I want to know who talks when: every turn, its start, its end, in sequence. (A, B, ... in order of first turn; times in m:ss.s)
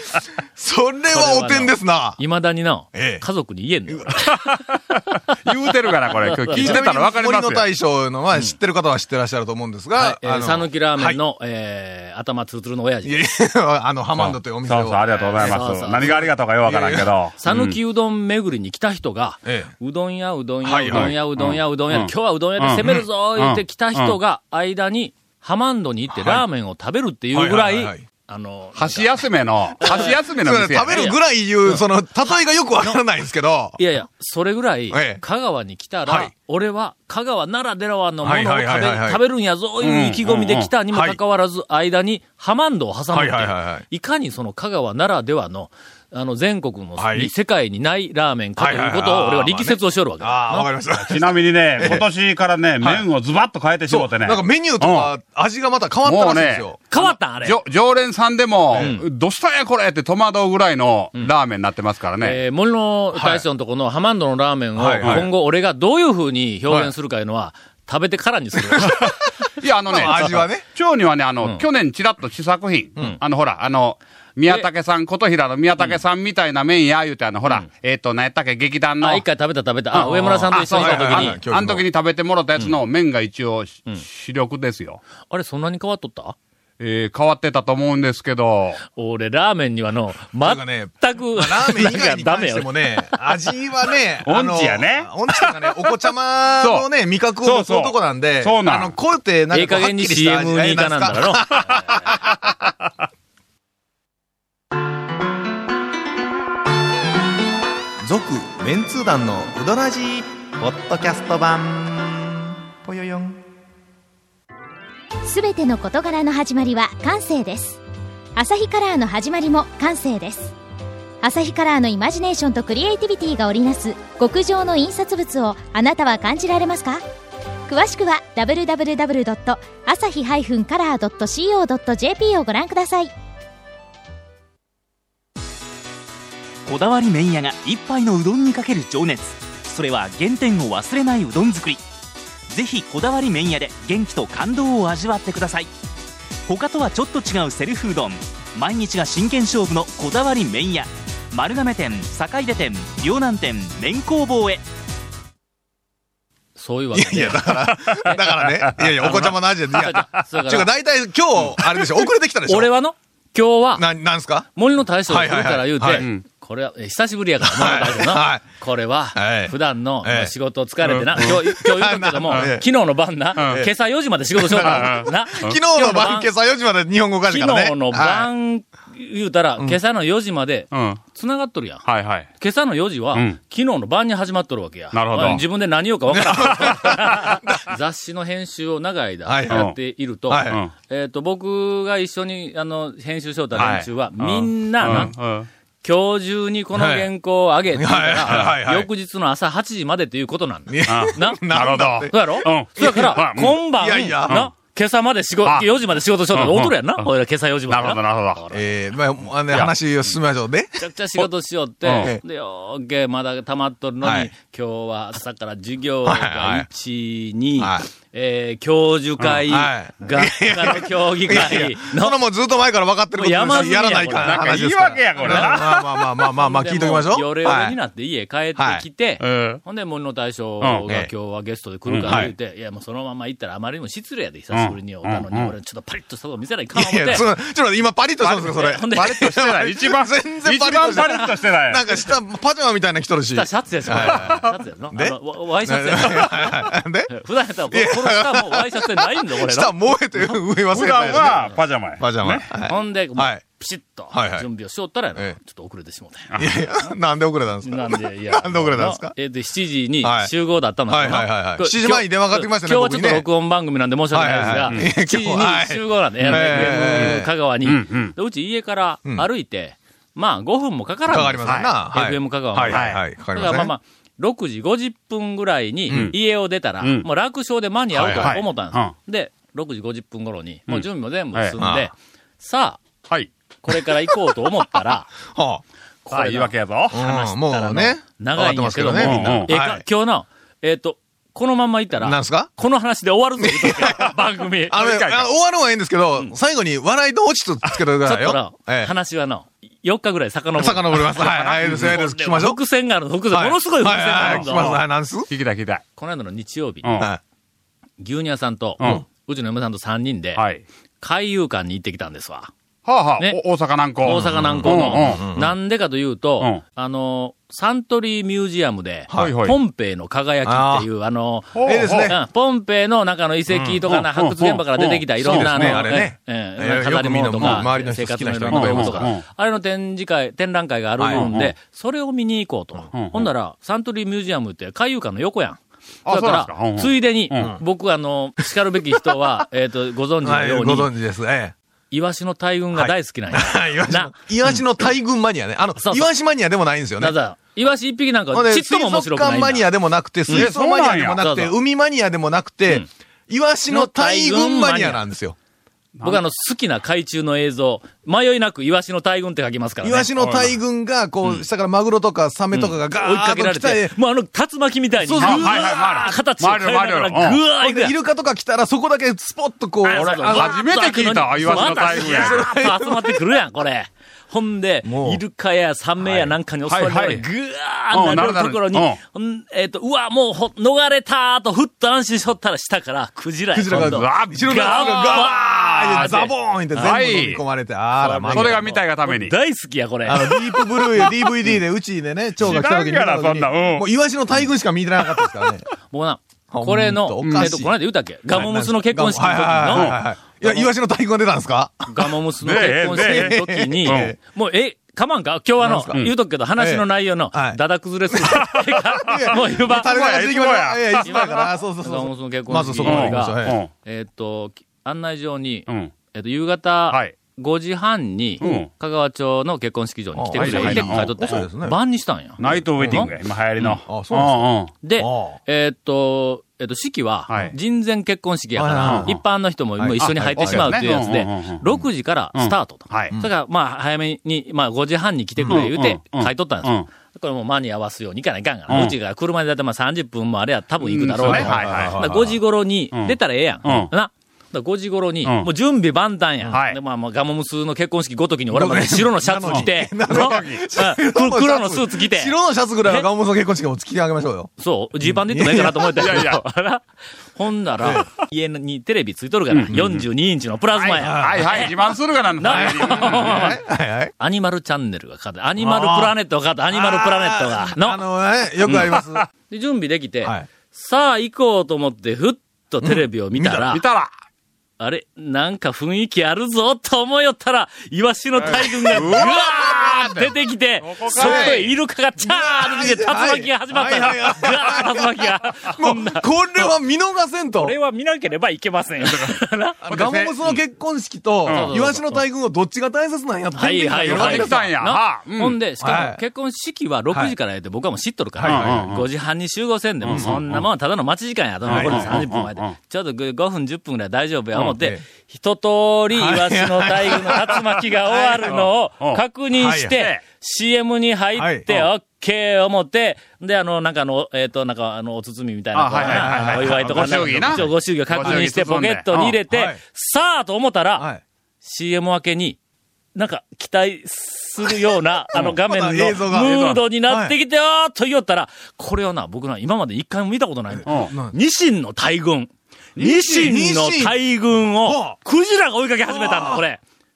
0:00.5-0:02.2 A
0:01.1-0:04.6 B
0:02.9-0:03.2 A
0:03.9-0:04.2 A
0:04.2-0:07.7 C
0:05.9-0:06.8 B
0:06.6-0:11.2 A
0:09.9-0:13.2 B
0:13.0-0:17.1 A
0:14.1-0:17.8 C
0:15.4-0:16.2 B
0:17.4-0:30.2 B
0:19.4-0:19.7 A
0:20.6-0:21.1 A
0:20.9-0:24.2 C
0:26.1-0:26.4 A
0:27.3-0:28.0 A
0:28.7-0:31.1 C
0:29.8-0:33.8 A
0:30.8-0:33.0 B
0:33.8-0:50.7 B
0:34.9-0:35.2 A
0:36.0-0:36.3 A
0:38.2-0:39.2 A
0:39.8-0:40.7 C
0:40.9-0:41.2 A
0:43.1-0:43.8 A
0:47.0-0:47.3 A
0:48.6-0:52.0 A
0:50.8-0:55.1 C
0:52.8-0:53.1 A
0:53.9-0:56.8 A
0:56.0-1:02.4 C
0:56.9-0:57.6 B
0:58.7-0:59.0 A
0:58.7-0:59.0 B
1:02.2-1:09.0 B
1:03.1-1:03.4 A
1:04.8-1:05.3 A
1:05.0-1:05.3 C
1:08.6-1:09.1 A
1:09.0-1:19.2 C
1:09.9-1:10.4 B
1:09.9-1:10.6 A
1:19.0-1:21.4 B
1:19.9-1:25.0 C
1:20.5-1:21.8 A
1:25.3-1:26.3 B
1:26.8-1:28.8 C
1:28.9-1:33.4 B
1:30.4-1:42.4 A
1:34.2-1:35.9 C
1:36.6-1:36.9 C
1:37.4-1:38.9 C
1:39.5-1:42.2 B
1:48.0-1:53.4 A
1:55.2-1:57.8 D
1:58.4-2:00.5 D
2:01.2-2:07.0 D
2:07.7-2:13.1 D
2:16.7-2:21.8 E
2:22.5-2:25.7 E
2:26.5-2:34.6 E
2:36.6-2:38.4 B
2:36.9-2:42.7 A
2:38.8-2:39.0 C
2:39.0-2:40.7 B
2:42.4-2:43.9 B
2:43.7-2:44.5 A
2:44.5-2:56.3 B
2:45.0-2:46.1 A
2:45.9-2:46.2 C
2:47.4-2:48.4 A
2:49.1-2:50.3 A
2:50.8-2:51.4 C
2:51.1-2:52.6 A
2:53.4-2:53.7 A
2:53.4-2:53.6 C
2:54.3-2:58.3 A
2:54.6-2:55.6 C
2:57.3-3:15.2 B
3:00.7-3:01.0 C
3:01.8-3:02.3 C
3:03.1-3:03.4 C
3:04.9-3:05.4 C
3:06.1-3:07.0 A
3:09.2-3:09.7 A
3:09.5-3:09.8 C
3:10.3-3:10.6 A
3:10.4-3:10.7 C
3:13.5-3:15.5 C
3:14.8-3:15.1 A
3:15.8-3:21.4 B
3:16.7-3:17.1 A
3:17.7-3:18.9 A
3:18.2-3:18.5 C
3:20.7-3:23.2 A
3:20.9-3:23.6 C
3:22.1-3:28.6 B
3:23.7-3:24.5 A
3:25.4-3:25.7 C
3:26.3-3:27.0 C
3:27.7-3:28.4 C
3:28.5-3:30.8 A
3:29.5-3:29.8 C
3:30.8-3:42.2 B
3:31.8-3:32.1 C
3:34.0-3:34.3 A
3:36.0-3:36.7 A
3:37.6-3:37.8 A
3:39.5-3:47.8 A
3:43.1-3:44.6 B
3:43.5-3:46.0 C
3:45.2-3:45.7 B
3:46.3-3:57.3 B
3:48.6-3:48.8 A
3:49.2-3:49.6 C
3:50.6-3:50.9 C
3:51.8-3:52.2 C
3:52.1-3:52.3 A
3:54.5-3:55.5 C
3:56.7-4:07.1 A
3:58.2-4:01.9 C
3:58.6-3:59.4 B
4:03.3-4:10.4 B
4:04.2-4:04.5 C
4:07.7-4:13.4 A
4:10.7-4:12.5 C
4:10.9-4:11.6 B
4:12.6-4:16.3 B
4:14.1-4:14.4 A
4:16.3-4:16.6 C
4:16.4-4:19.2 A
4:17.6-4:42.8 B
4:20.0-4:20.3 A
4:20.9-4:23.3 A
4:24.1-4:27.3 A
4:24.5-4:24.8 C
4:26.2-4:28.1 C
4:31.1-4:33.7 A
4:31.4-4:31.7 C
4:32.6-4:33.0 C
4:35.9-4:36.1 A
4:36.8-4:37.0 C
4:37.9-4:38.4 A
4:38.1-4:38.9 C
4:40.7-4:41.6 C
4:41.6-4:41.9 A
4:43.6-4:45.1 B
4:45.3-4:45.6 A
4:46.0-4:54.8 B
4:46.1-4:47.0 C
4:46.9-4:49.8 A
4:49.0-4:49.5 C
4:52.0-4:52.5 A
4:53.4-4:54.2 A
4:54.7-4:58.9 A
4:54.7-4:55.3 C
4:58.0-5:04.8 B
5:00.6-5:02.6 A
5:01.6-5:01.9 C
5:03.3-5:05.3 A
5:04.2-5:05.8 C
5:06.0-5:07.0 B
5:06.8-5:07.1 C
5:08.0-5:10.4 B
5:08.8-5:09.0 C
5:10.4-5:10.6 C
5:11.0-5:12.5 B
5:12.8-5:15.3 C
5:14.0-5:40.9 B
5:14.0-5:15.5 A
5:19.1-5:19.4 A
5:19.1-5:19.6 C
5:20.4-5:20.9 A
5:21.5-5:22.1 C
5:21.6-5:22.2 A
5:23.5-5:26.0 C
5:25.2-5:29.1 A
5:28.5-5:29.2 C
5:31.0-5:31.3 A
5:31.1-5:31.5 C
5:32.9-5:33.3 C
5:36.0-5:37.5 C
5:40.2-5:41.5 A
5:41.9-5:44.6 B
5:42.7-5:47.2 A
5:45.8-5:46.1 B
5:47.0-5:49.7 B
5:48.3-5:55.4 A
5:50.3-5:50.6 B
5:50.3-5:51.2 C
5:51.1-5:51.5 B
5:53.7-5:55.0 B
5:56.0-5:56.2 C
5:56.0-6:00.1 B
5:59.8-6:03.9 A
6:00.2-6:00.5 C
6:02.5-6:07.9 B
6:05.0-6:06.2 A
6:05.2-6:07.4 C
6:07.6-6:10.6 A
6:09.8-6:12.5 C
6:09.8-6:27.0 B
6:11.4-6:13.3 A
6:14.8-6:15.2 A
6:16.0-6:16.3 A
6:16.6-6:17.2 C
6:17.9-6:19.0 C
6:23.5-6:28.8 A
6:23.7-6:27.4 C
6:28.0-6:29.4 C
6:28.2-6:31.1 B
6:30.1-6:35.7 A
6:32.4-6:33.9 C
6:35.9-6:40.7 B
6:36.5-6:37.7 A
6:37.2-6:37.6 C
6:38.3-6:42.1 A
6:39.7-6:40.0 C
6:41.9-6:49.9 B
6:42.4-6:44.2 C
6:42.9-6:44.2 A
6:45.6-6:47.6 A
6:48.2-6:48.4 A
6:48.2-6:48.6 C
6:49.0-6:53.6 A
6:49.6-6:51.5 C
6:51.0-7:03.1 B
6:52.8-6:53.7 C
6:58.4-6:58.7 C
7:00.1-7:01.8 A
7:00.3-7:01.4 C
7:02.4-7:04.7 C
7:02.8-7:05.4 A
7:04.8-7:33.0 B
7:07.3-7:07.5 C
7:08.5-7:09.1 A
7:08.8-7:09.2 C
7:09.8-7:10.8 A
7:10.0-7:11.6 C
7:12.3-7:13.2 C
7:15.4-7:15.7 A
7:15.5-7:16.9 C
7:18.7-7:19.0 C
7:20.8-7:22.3 C
7:21.2-7:22.3 A
7:22.9-7:23.9 C
7:26.5-7:26.8 C
7:28.5-7:36.2 A
7:29.4-7:30.6 C
7:34.6-7:36.8 B
7:36.0-7:36.4 C
7:37.3-7:43.6 B
7:39.5-7:40.0 C
7:40.7-7:43.5 C
7:41.0-7:41.7 A
7:42.4-7:44.1 A
7:44.2-7:48.0 B
7:45.6-7:46.1 A
7:46.7-7:49.3 A
7:48.7-7:48.9 C
7:49.5-7:53.8 B
7:50.2-7:50.5 A
7:53.3-7:54.1 C
7:54.8-8:06.7 B
7:58.4-8:01.7 C
7:58.9-7:59.2 A
8:01.1-8:01.6 A
8:02.2-8:07.7 A
8:07.6-8:10.2 B
8:09.0-8:09.3 C
8:09.8-8:14.7 A
8:09.9-8:10.5 C
8:11.4-8:11.9 C
8:11.5-8:12.2 B
8:13.6-8:41.1 B
8:13.8-8:15.6 C
8:15.8-8:16.2 A
8:17.1-8:17.4 A
8:18.4-8:18.8 A
8:18.4-8:19.0 C
8:20.0-8:20.6 C
8:20.0-8:20.4 A
8:21.6-8:22.2 A
8:21.6-8:22.7 C
8:24.6-8:25.0 A
8:26.1-8:27.5 A
8:28.1-8:28.4 A
8:28.1-8:29.2 C
8:29.5-8:30.0 A
8:29.9-8:30.2 C
8:31.4-8:31.7 A
8:35.7-8:39.4 C
8:36.0-8:37.7 A
8:38.2-8:38.5 A
8:39.5-8:39.8 A
8:41.0-8:41.2 A
8:41.6-8:42.6 B
8:43.1-8:56.8 B
8:45.3-8:47.4 A
8:46.3-8:46.8 C
8:50.7-8:51.4 A
8:50.8-8:51.1 C
8:53.0-8:53.5 C
8:53.2-8:55.2 A
8:56.0-8:56.6 A